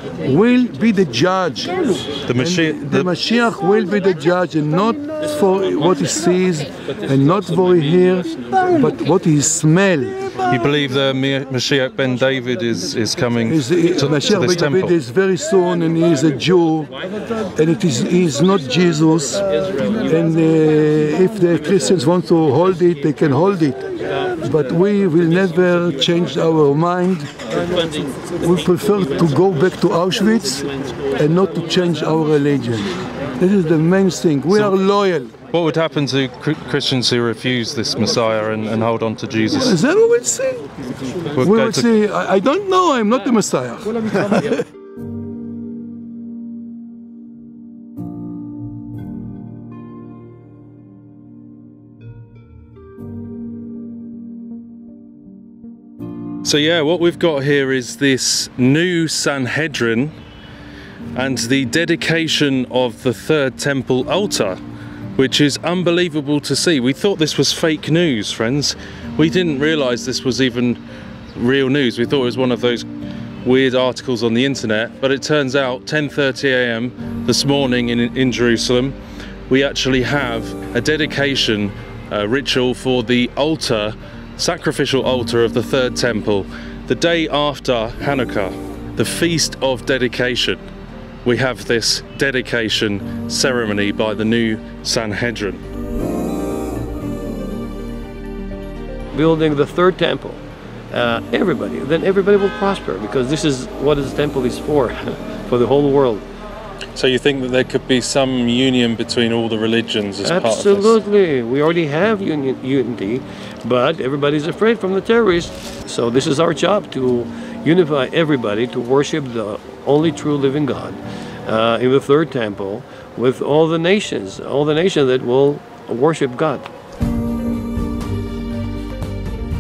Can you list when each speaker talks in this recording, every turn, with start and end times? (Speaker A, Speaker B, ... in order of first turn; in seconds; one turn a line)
Speaker A: 0.2-10.2
Speaker B: 2.2-3.1
Speaker B: 10.5-15.0
Speaker A: 13.4-16.9
Speaker A: 17.6-19.4
Speaker A: 20.0-23.8
Speaker A: 24.4-27.3
Speaker A: 28.4-35.3
Speaker B: 34.5-34.8
Speaker B: 35.5-39.8
Speaker A: 39.5-40.7
Speaker B: 41.4-41.9
Speaker A: 41.4-44.6
Speaker B: 56.4-60.1
Speaker B: 61.1-64.6
Speaker B: 65.2-70.8
Speaker B: 71.3-72.8
Speaker B: 73.4-79.0
Speaker B: 79.5-90.6
Speaker B: 91.2-95.6
Speaker C: 99.1-106.3
Speaker B: 107.0-111.0
Speaker C: 110.2-126.7